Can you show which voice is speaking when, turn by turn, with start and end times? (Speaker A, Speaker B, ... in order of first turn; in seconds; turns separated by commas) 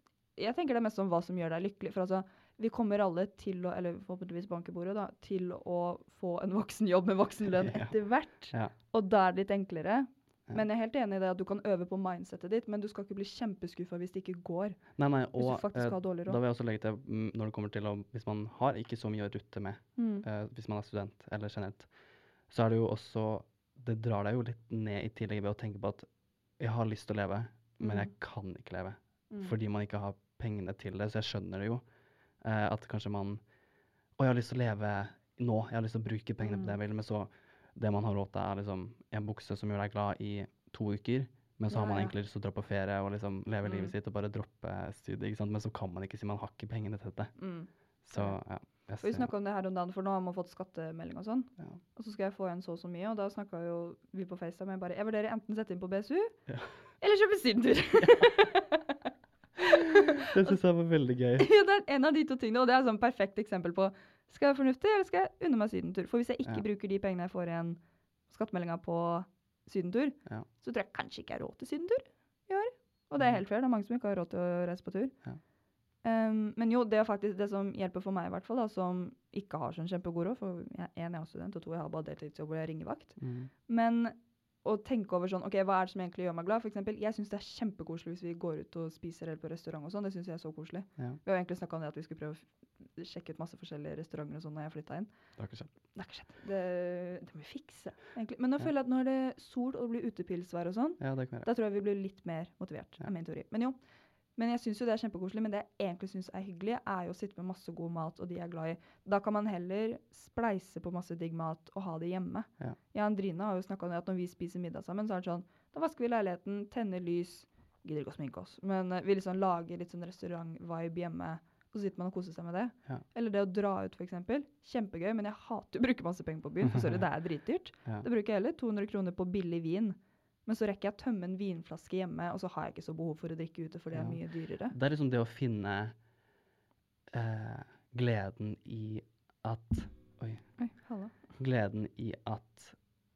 Speaker A: 0.3-14.8, Speaker B: 7.5-8.7, Speaker B: 15.0-21.9, Speaker A: 15.4-16.4, Speaker A: 20.0-20.2, Speaker B: 22.5-26.1, Speaker B: 26.6-31.8, Speaker A: 27.8-28.1, Speaker A: 29.3-29.6, Speaker B: 32.4-33.4, Speaker B: 34.2-47.4, Speaker A: 36.4-36.8, Speaker A: 41.7-42.1, Speaker A: 43.6-43.9, Speaker A: 47.4-48.4, Speaker B: 48.0-49.3, Speaker A: 49.0-56.4, Speaker B: 56.5-56.7, Speaker A: 57.0-59.0, Speaker B: 58.0-58.2, Speaker A: 59.6-60.5, Speaker B: 60.2-61.5, Speaker A: 61.4-75.1, Speaker A: 76.0-95.1, Speaker B: 83.2-83.5, Speaker B: 95.4-95.7, Speaker A: 95.9-103.8, Speaker B: 101.0-101.5, Speaker A: 104.3-134.7, Speaker B: 126.6-127.0, Speaker B: 133.9-135.9, Speaker B: 137.1-140.4, Speaker A: 140.6-141.2, Speaker B: 141.4-142.8